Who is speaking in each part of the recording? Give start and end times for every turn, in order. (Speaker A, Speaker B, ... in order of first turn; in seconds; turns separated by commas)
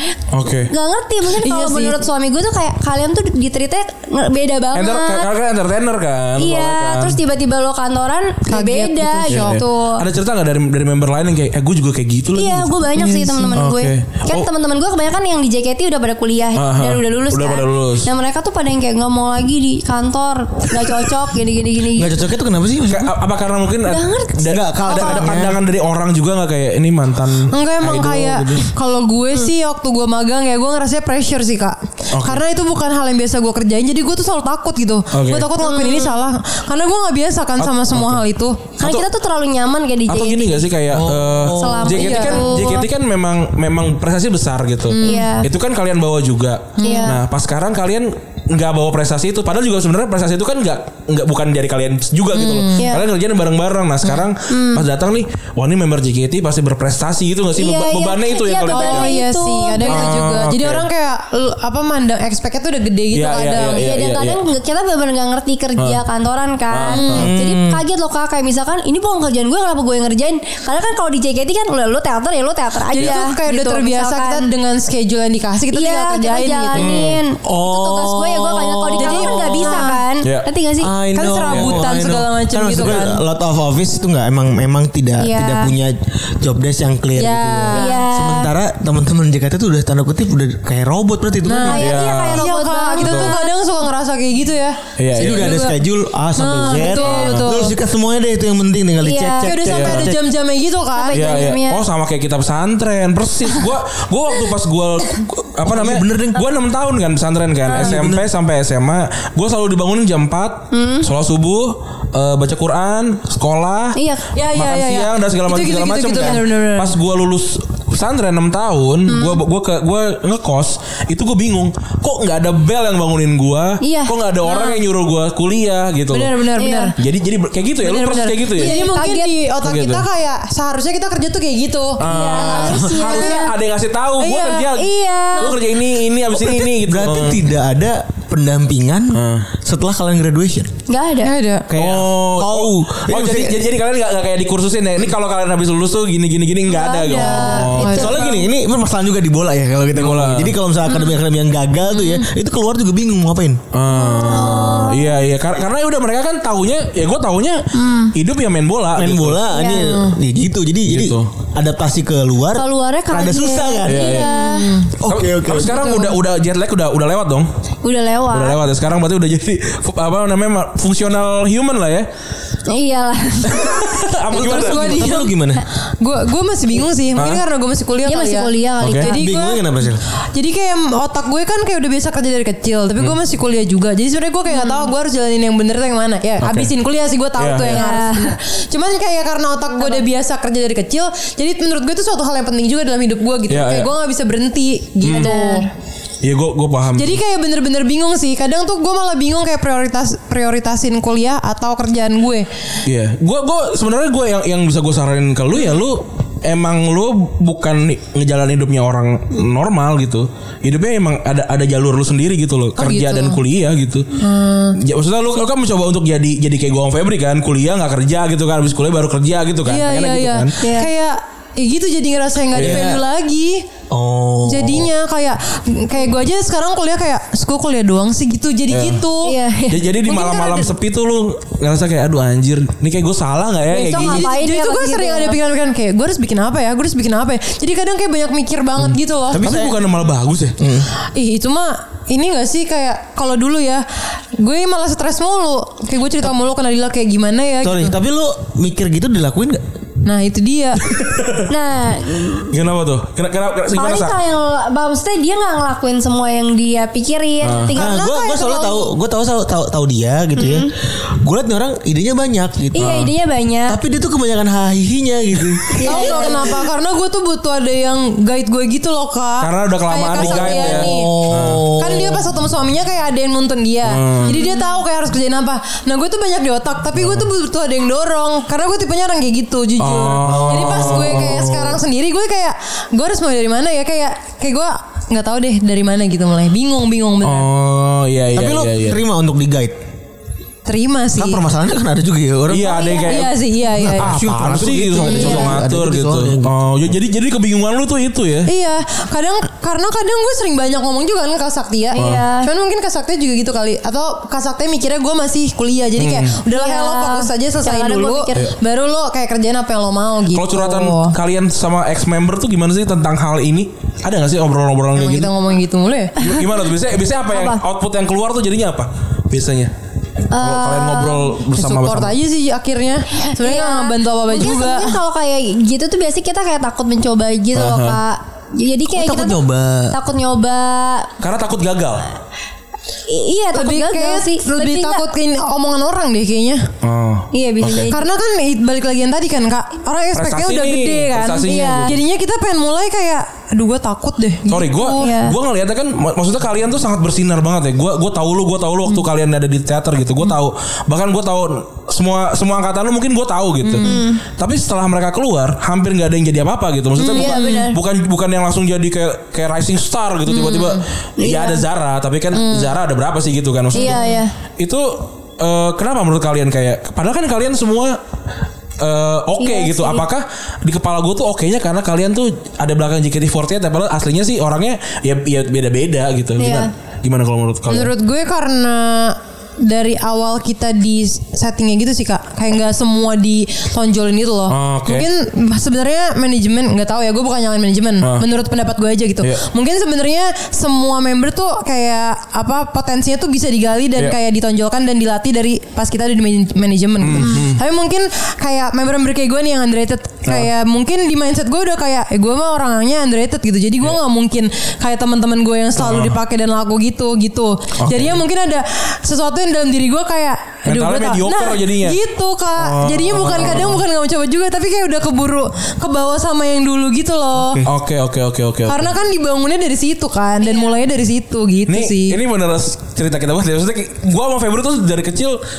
Speaker A: 0.3-0.7, Speaker B: 0.7-5.3, Speaker C: 1.3-2.0, Speaker A: 4.7-7.2, Speaker B: 6.4-10.0, Speaker C: 8.5-9.6, Speaker A: 9.3-12.7, Speaker B: 12.3-22.2, Speaker C: 12.9-13.6, Speaker A: 13.6-14.5, Speaker A: 16.6-18.1, Speaker D: 21.9-23.1, Speaker A: 22.9-28.7, Speaker B: 23.9-25.4, Speaker D: 24.4-25.6, Speaker C: 27.5-38.6, Speaker A: 32.1-32.4, Speaker A: 35.1-35.5, Speaker B: 35.6-36.2, Speaker A: 37.6-38.2, Speaker A: 38.8-39.0, Speaker B: 38.8-40.7, Speaker A: 40.1-59.2, Speaker D: 40.9-42.0, Speaker B: 41.6-42.9, Speaker C: 41.9-42.6, Speaker C: 44.9-45.3, Speaker B: 45.0-45.5, Speaker C: 46.8-47.2, Speaker B: 46.8-47.2, Speaker C: 52.3-52.9, Speaker B: 52.8-53.0, Speaker B: 54.5-54.9, Speaker B: 57.6-60.2, Speaker C: 58.7-63.9, Speaker A: 59.9-60.9, Speaker A: 63.1-64.4, Speaker B: 63.6-74.5, Speaker A: 66.7-67.4, Speaker C: 66.9-67.3, Speaker D: 67.2-67.8, Speaker C: 72.9-77.0, Speaker B: 75.7-80.9, Speaker A: 76.8-77.2, Speaker D: 77.4-79.6, Speaker C: 79.0-80.0, Speaker A: 80.2-80.5, Speaker D: 80.8-91.9, Speaker C: 81.2-83.2, Speaker A: 81.5-81.8, Speaker B: 85.2-85.7, Speaker C: 87.2-87.8, Speaker B: 87.7-88.5, Speaker C: 91.5-95.8, Speaker B: 91.6-93.5, Speaker A: 91.8-92.5, Speaker A: 93.0-93.3, Speaker A: 95.0-95.6, Speaker D: 95.1-100.2, Speaker C: 96.4-97.7, Speaker B: 96.7-97.1, Speaker A: 97.0-97.5, Speaker B: 99.0-99.6, Speaker C: 99.4-101.2, Speaker A: 99.7-100.1, Speaker B: 101.0-101.8, Speaker A: 101.1-126.3, Speaker D: 105.6-106.4, Speaker B: 107.7-108.0, Speaker D: 107.7-108.3, Speaker B: 110.7-111.1, Speaker B: 114.0-114.3, Speaker C: 114.3-117.0, Speaker B: 119.1-119.4, Speaker B: 123.8-124.8, Speaker C: 126.1-127.0, Speaker B: 126.6-126.9, Speaker A: 127.0-128.8, Speaker C: 127.8-133.4, Speaker B: 128.6-129.3, Speaker A: 129.6-130.1, Speaker A: 132.0-137.4, Speaker B: 132.1-133.5, Speaker C: 134.2-134.7, Speaker B: 134.7-135.6, Speaker D: 136.3-140.7, Speaker A: 139.1-139.5, Speaker B: 140.9-141.3, Speaker C: 141.2-141.7, Speaker D: 141.7-143.6, Speaker A: 141.7-148.2, Speaker B: 146.7-148.3, Speaker C: 147.2-148.4, Speaker D: 147.6-153.6, Speaker A: 149.9-150.6, Speaker B: 150.9-151.2, Speaker A: 153.7-159.5, Speaker B: 153.9-155.2, Speaker B: 157.7-158.2, Speaker D: 158.9-164.3, Speaker B: 159.5-160.0, Speaker C: 159.8-160.2, Speaker A: 160.9-161.3, Speaker B: 162.6-164.7, Speaker A: 163.8-164.3, Speaker C: 164.3-164.9, Speaker D: 164.9-165.9, Speaker A: 165.1-167.5, Speaker C: 165.6-166.2, Speaker B: 167.8-168.6, Speaker A: 168.3-172.1, Speaker B: 172.7-173.9, Speaker A: 173.4-175.2, Speaker C: 174.3-175.3, Speaker D: 174.3-175.6, Speaker C: 176.0-179.6, Speaker A: 177.2-177.4, Speaker B: 178.1-179.2, Speaker A: 178.8-179.1, Speaker D: 179.1-180.0, Speaker C: 180.3-195.7, Speaker B: 184.5-184.9, Speaker A: 186.4-186.7, Speaker A: 187.4-187.8, Speaker B: 187.7-188.3, Speaker A: 193.5-193.9, Speaker A: 195.0-195.3, Speaker B: 195.1-195.7, Speaker A: 196.2-197.2, Speaker C: 197.0-202.5, Speaker A: 202.8-214.1, Speaker C: 212.8-213.4, Speaker C: 214.2-214.8, Speaker A: 214.8-220.5, Speaker C: 219.7-223.7, Speaker B: 220.6-220.9, Speaker A: 222.5-222.9, Speaker D: 222.6-223.0, Speaker D: 223.9-224.9, Speaker C: 224.5-229.3, Speaker A: 228.7-229.0, Speaker B: 229.2-229.9, Speaker A: 229.7-234.3, Speaker C: 230.0-230.7, Speaker B: 233.7-235.4, Speaker C: 233.9-239.4, Speaker D: 239.3-239.8, Speaker A: 239.4-240.6, Speaker D: 240.6-240.9, Speaker C: 241.1-248.0, Speaker D: 247.6-249.6, Speaker C: 250.1-250.8, Speaker A: 250.9-251.5, Speaker B: 251.5-252.6, Speaker A: 252.5-254.2, Speaker B: 253.8-258.0, Speaker A: 257.4-257.7, Speaker D: 257.8-263.1, Speaker C: 257.8-258.9, Speaker B: 260.4-260.7, Speaker B: 262.7-263.8, Speaker A: 262.8-263.1, Speaker D: 263.7-266.4, Speaker B: 265.8-266.6, Speaker C: 265.8-271.1, Speaker A: 269.4-271.6, Speaker D: 270.1-272.3, Speaker C: 271.8-287.5, Speaker A: 273.9-274.4, Speaker A: 277.0-277.3, Speaker A: 279.8-281.8, Speaker D: 280.2-281.3, Speaker A: 287.2-289.0, Speaker D: 288.3-289.8, Speaker C: 290.7-291.4, Speaker D: 291.1-293.1, Speaker A: 292.5-293.4, Speaker B: 292.6-293.2, Speaker C: 293.1-294.2, Speaker D: 293.7-296.6, Speaker A: 294.0-298.5, Speaker B: 295.0-295.6, Speaker C: 298.5-311.2, Speaker B: 301.9-302.5, Speaker A: 302.0-302.3, Speaker A: 306.0-306.4, Speaker B: 306.5-308.5, Speaker A: 310.3-315.3, Speaker C: 315.0-316.2, Speaker A: 316.2-319.7, Speaker B: 316.2-316.6, Speaker B: 317.3-317.6, Speaker B: 320.3-321.4, Speaker A: 320.3-322.2, Speaker C: 321.6-325.0, Speaker B: 323.4-329.4, Speaker A: 327.5-328.0, Speaker D: 328.9-330.0, Speaker B: 329.9-331.1, Speaker A: 331.2-332.1, Speaker B: 333.1-335.0, Speaker C: 333.5-336.7, Speaker A: 336.8-337.9, Speaker B: 337.3-338.0, Speaker C: 337.9-345.1, Speaker A: 340.1-342.0, Speaker B: 341.4-342.0, Speaker A: 344.5-368.0, Speaker B: 345.0-345.4, Speaker C: 353.6-354.1, Speaker B: 353.8-354.2, Speaker C: 357.0-357.7, Speaker B: 357.0-357.8, Speaker B: 360.3-361.6, Speaker C: 362.3-362.7, Speaker B: 363.7-364.3, Speaker C: 363.8-364.2, Speaker A: 368.8-377.9, Speaker B: 369.4-370.1, Speaker B: 376.4-376.7, Speaker C: 377.7-417.6, Speaker A: 384.5-385.1, Speaker A: 397.0-397.6, Speaker A: 405.8-406.2, Speaker A: 407.8-408.2, Speaker A: 410.6-412.0, Speaker A: 412.6-413.8, Speaker D: 417.4-417.7, Speaker A: 417.6-418.9, Speaker C: 418.7-422.2, Speaker B: 420.4-420.8, Speaker A: 421.7-425.4